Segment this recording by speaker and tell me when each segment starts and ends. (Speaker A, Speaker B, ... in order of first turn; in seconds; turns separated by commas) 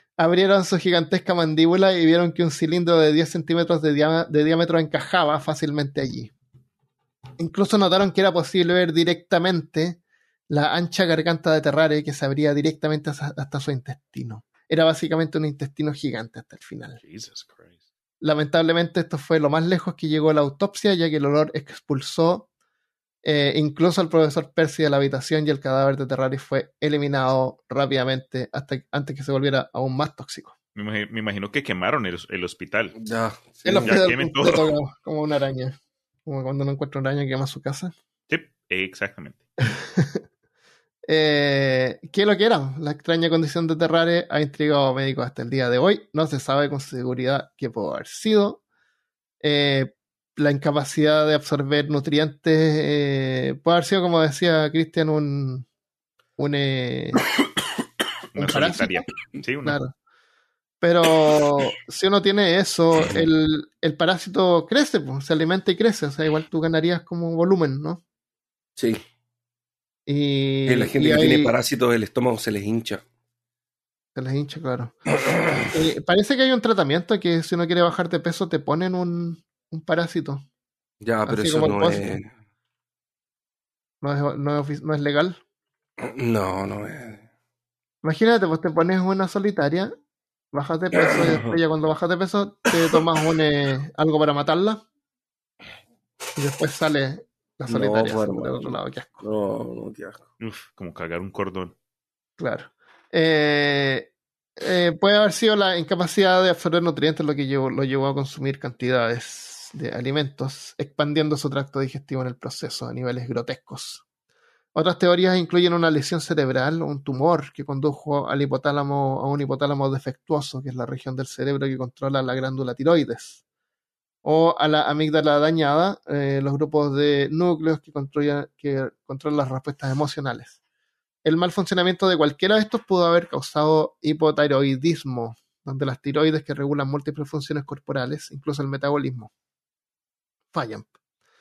Speaker A: 0.2-6.3, Speaker A: 7.4-17.0, Speaker B: 17.0-17.7, Speaker A: 18.2-22.5, Speaker A: 23.2-30.5, Speaker B: 30.8-33.0, Speaker C: 33.0-34.1, Speaker A: 33.6-37.9, Speaker B: 33.9-34.7, Speaker B: 38.3-39.4, Speaker A: 39.6-40.2, Speaker A: 41.1-48.6, Speaker A: 49.4-55.7, Speaker A: 56.4-57.2, Speaker B: 58.3-59.8, Speaker A: 58.4-59.1, Speaker A: 59.6-59.9, Speaker A: 60.8-68.0, Speaker C: 63.0-63.3, Speaker C: 68.8-69.0, Speaker A: 70.1-71.5, Speaker C: 70.7-73.0, Speaker A: 74.2-75.0, Speaker A: 75.5-80.4, Speaker C: 81.0-82.3, Speaker A: 81.3-82.2, Speaker A: 84.0-85.4, Speaker C: 86.0-87.2, Speaker A: 88.0-89.9, Speaker A: 90.5-94.8, Speaker C: 90.9-91.6, Speaker A: 96.4-99.2, Speaker C: 97.7-100.2, Speaker B: 100.4-101.7, Speaker A: 102.4-114.0, Speaker A: 114.8-123.4, Speaker A: 124.2-130.6, Speaker A: 131.2-139.3, Speaker A: 140.5-140.9